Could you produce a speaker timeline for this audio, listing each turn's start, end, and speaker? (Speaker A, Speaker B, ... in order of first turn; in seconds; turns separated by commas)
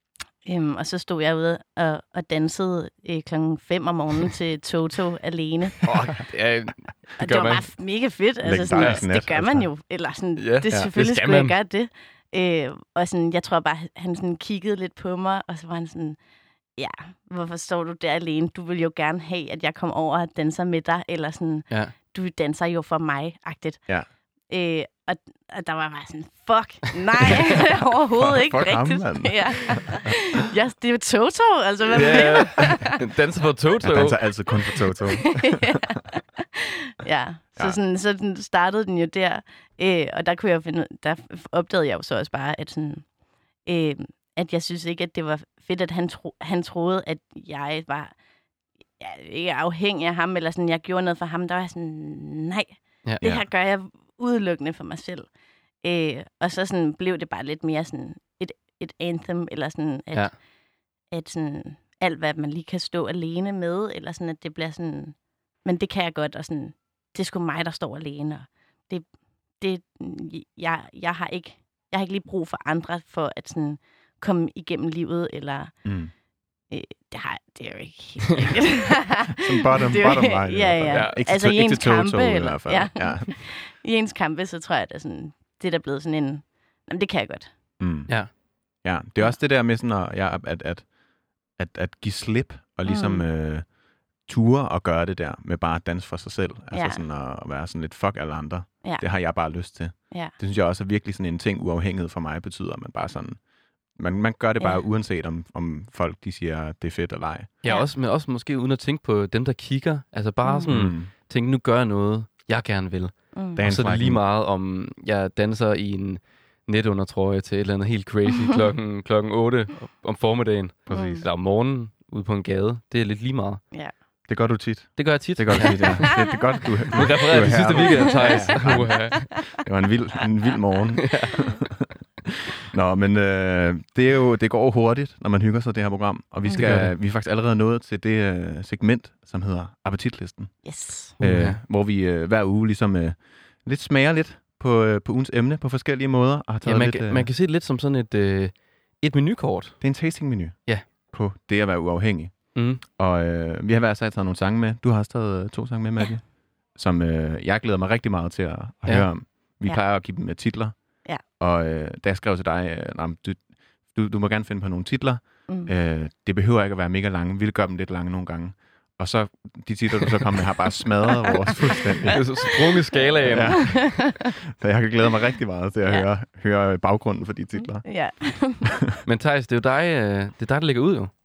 Speaker A: 0.5-5.8, Speaker B: 5.8-7.7, Speaker C: 5.8-6.2, Speaker A: 7.2-16.2, Speaker C: 8.4-9.7, Speaker B: 8.8-9.0, Speaker B: 10.4-11.6, Speaker A: 16.8-23.8, Speaker A: 24.5-33.0, Speaker C: 27.3-30.3, Speaker B: 31.9-34.2, Speaker C: 33.8-35.8, Speaker A: 35.4-43.1, Speaker A: 43.6-48.1, Speaker A: 49.0-55.3, Speaker A: 55.8-60.5, Speaker A: 61.1-69.0, Speaker A: 69.6-75.8, Speaker C: 75.8-76.1, Speaker A: 76.7-87.5, Speaker C: 79.3-83.3, Speaker B: 80.9-81.2, Speaker C: 87.8-90.9, Speaker C: 91.5-103.4, Speaker A: 92.9-93.2, Speaker A: 96.7-97.0, Speaker A: 98.8-99.3, Speaker C: 104.0-107.5, Speaker B: 107.6-123.6, Speaker A: 110.4-110.7, Speaker C: 110.7-111.1, Speaker A: 113.3-113.6, Speaker C: 113.5-114.2, Speaker C: 120.9-121.3, Speaker A: 120.9-121.3, Speaker C: 124.3-131.9, Speaker B: 125.0-126.2, Speaker B: 126.9-129.4, Speaker A: 127.8-129.1, Speaker C: 132.7-140.6, Speaker A: 136.4-136.8, Speaker B: 136.5-136.9, Speaker A: 140.6-141.2, Speaker B: 141.2-141.6, Speaker C: 141.2-147.3, Speaker B: 146.7-149.8, Speaker C: 149.8-172.4, Speaker B: 152.6-152.8, Speaker A: 165.5-165.7, Speaker B: 172.1-173.8, Speaker C: 173.2-177.8, Speaker A: 173.3-174.3, Speaker A: 177.6-178.7, Speaker C: 178.6-178.9, Speaker B: 179.0-181.1